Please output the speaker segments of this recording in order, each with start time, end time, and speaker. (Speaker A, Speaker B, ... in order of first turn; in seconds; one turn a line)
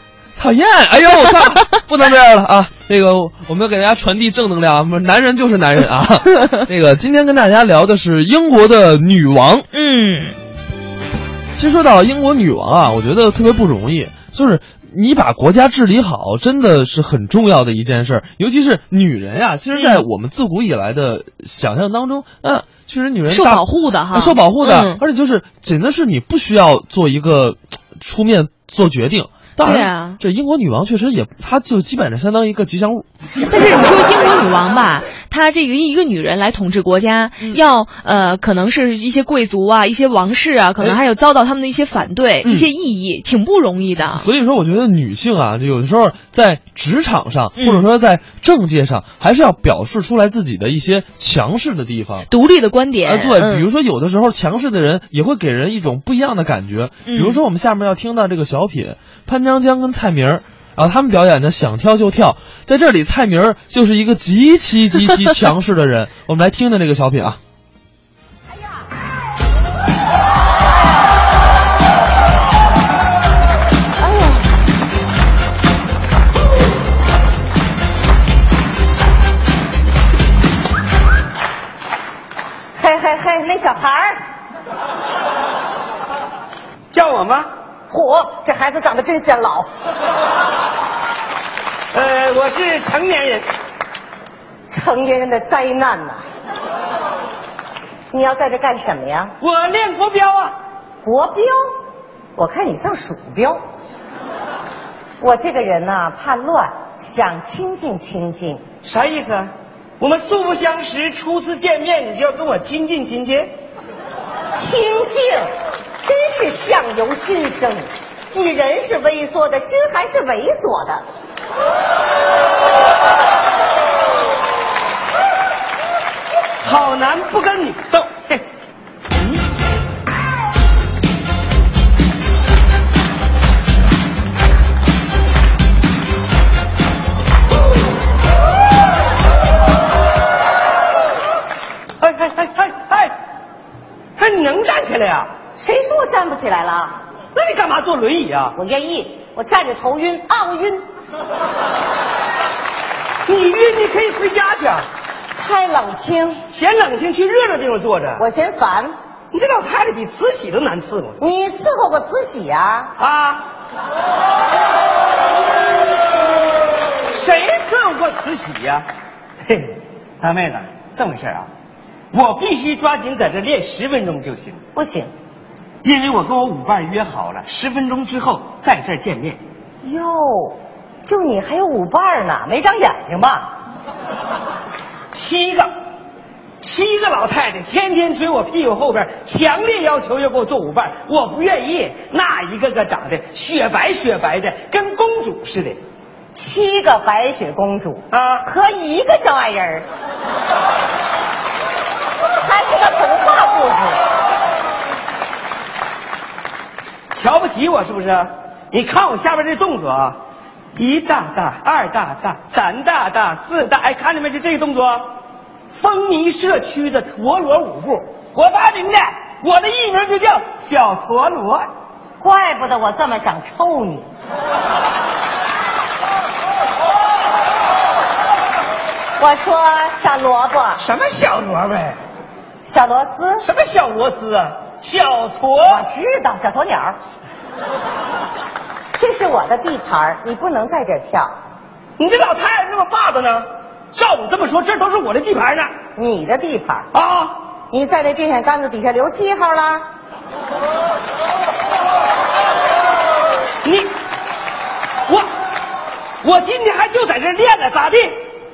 Speaker A: 0.4-9.7
Speaker B: 9.7-10.3
Speaker A: 11.6-33.0
Speaker B: 19.8-20.0
Speaker B: 23.3-25.0
Speaker B: 29.6-30.2
Speaker B: 33.5-44.2
Speaker A: 42.4-42.7
Speaker A: 44.1-52.3
Speaker B: 47.5-47.9
Speaker B: 52.3-53.7
Speaker A: 53.0-67.4
Speaker B: 57.0-57.4
Speaker C: 74.0-74.5
Speaker C: 82.7-84.2
Speaker D: 86.9-87.5
Speaker C: 87.9-89.7
Speaker D: 91.9-93.4
Speaker C: 94.7-96.2
Speaker C: 98.1-99.3
Speaker D: 99.4-100.5
Speaker C: 101.0-101.5
Speaker C: 102.3-103.6
Speaker C: 105.2-108.6
Speaker D: 108.8-113.5
Speaker C: 114.5-115.5
Speaker C: 116.0-121.0
Speaker D: 126.6-128.4
Speaker D: 142.0-143.1
Speaker D: 144.2-145.3
Speaker C: 145.6-147.0
Speaker D: 147.3-148.5
Speaker C: 148.5-150.8
Speaker D: 153.3-154.8
Speaker C: 155.3-156.4
Speaker D: 156.5-158.2
Speaker C: 158.2-158.9
Speaker D: 159.3-161.2
Speaker C: 161.2-162.9
Speaker D: 163.0-163.4
Speaker D: 167.1-168.8
Speaker D: 169.5-171.5
Speaker D: 172.1-174.6
Speaker C: 174.7-175.1
Speaker D: 175.8-179.4
Speaker C: 179.8-183.5
Speaker D: 185.1-185.7
Speaker D: 186.6-195.8
Speaker C: 196.3-199.9
Speaker D: 198.1-198.4
Speaker C: 202.4-204.0
Speaker D: 207.1-210.2
Speaker D: 210.7-215.1
Speaker D: 215.7-221.7
Speaker C: 222.2-224.1
Speaker C: 229.2-230.8
Speaker D: 230.8-231.9
Speaker C: 232.6-233.4
Speaker D: 233.4-235.8
Speaker C: 235.7-237.0
Speaker C: 238.9-241.3
Speaker D: 242.0-245.7
Speaker C: 245.9-246.9
Speaker D: 246.9-247.4
Speaker C: 247.7-249.8
Speaker D: 253.6-253.9
Speaker D: 256.2-258.2